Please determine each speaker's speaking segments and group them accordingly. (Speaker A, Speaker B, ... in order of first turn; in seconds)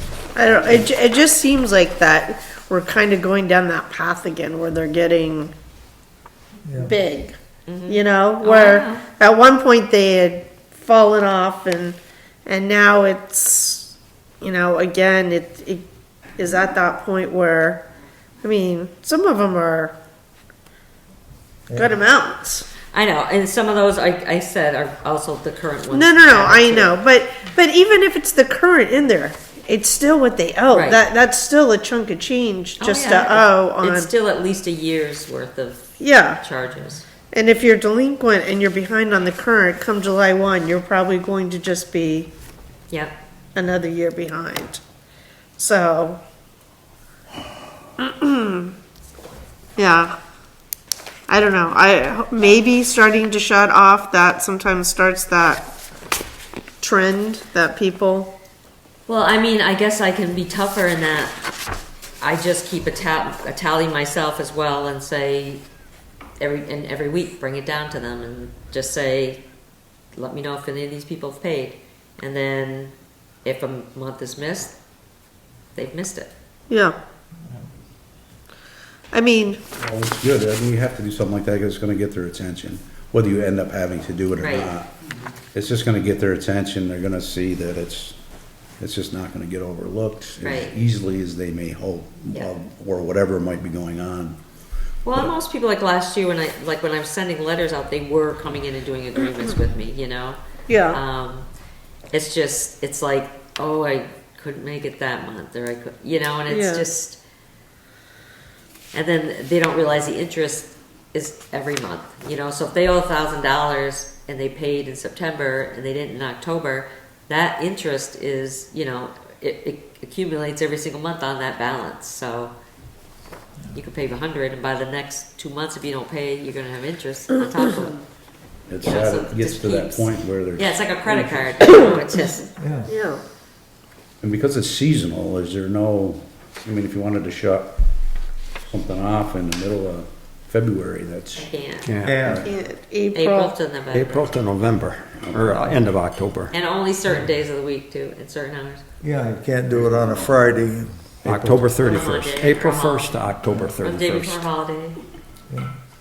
Speaker A: 0.3-5.5, 6.8-7.3, 7.9-15.8, 16.4-17.8, 18.4-19.9, 21.7-22.7, 25.9-34.1, 36.0-36.4, 37.3-42.3, 43.5-44.8, 45.6-46.2, 48.0-48.7, 49.8-50.1, 51.3-55.7, 56.8-58.3, 76.7-77.0, 79.1-79.6, 100.7-101.0, 106.5-106.8, 132.8-133.2, 142.3-143.6
Speaker B: 6.7-6.9, 132.6-132.9, 142.0-142.5, 149.0-150.9
Speaker C: 7.7-9.0, 22.9-27.0, 30.7-31.0, 32.8-37.1, 42.9-43.1, 59.1-61.3, 62.2-65.6, 66.4-69.4, 70.2-72.9, 73.4-74.8, 75.8-76.3, 84.4-84.7, 90.4-90.8, 95.0-101.5, 102.1-107.2, 108.9-122.5, 123.7-128.0, 128.8-132.5, 141.4-141.9, 143.1-144.4, 146.5-148.8, 151.8-153.2, 153.8-155.0
Speaker D: 79.7-84.9, 85.5-88.2, 88.8-94.4, 128.7-132.0, 134.2-137.8, 138.7-141.5, 142.2-142.5, 145.2-145.6, 149.7-150.3, 151.2-151.8
Speaker E: 141.8-142.2, 143.9-146.5, 151.2-154.4